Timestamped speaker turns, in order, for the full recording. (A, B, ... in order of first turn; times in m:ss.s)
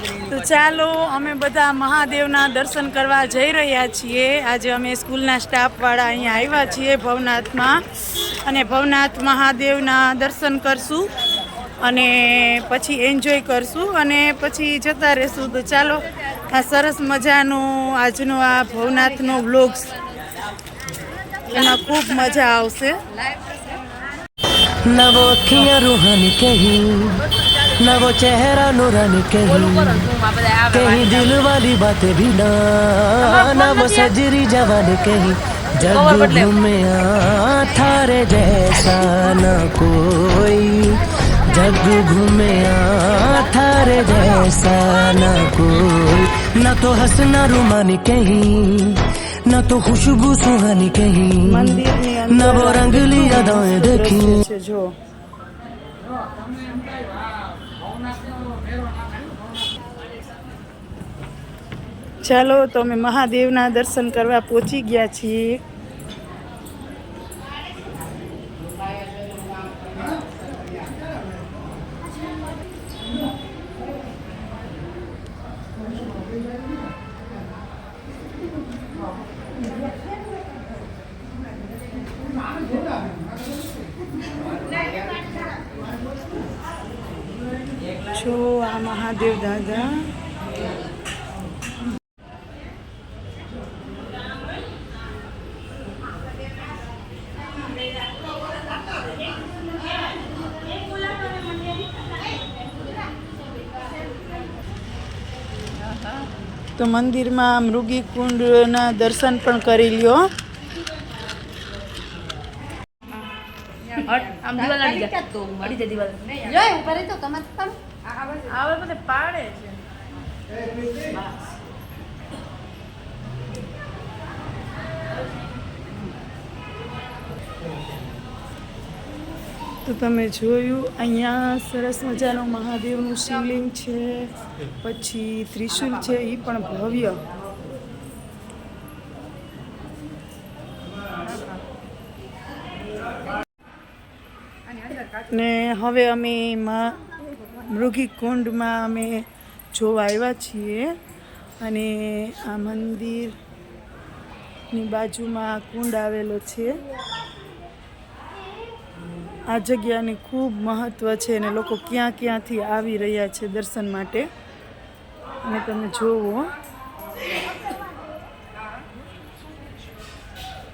0:00.2-0:11.1 A
0:11.8-0:19.9 A
0:21.5-0:23.0 A
0:24.8-0:54.4 B
0:51.4-0:54.9 A
1:02.2-1:05.6 A
1:28.1-1:30.1 A
1:46.8-1:50.2 A
1:54.0-1:57.1 C
1:54.8-1:57.8 D
1:58.4-1:59.8 C
2:09.8-2:14.3 A
2:14.8-2:17.2 A
2:25.3-2:26.9 A
2:27.6-2:30.9 A
2:31.6-2:33.3 A
2:34.7-2:36.7 A
2:39.5-2:44.2 A
2:45.4-2:46.5 A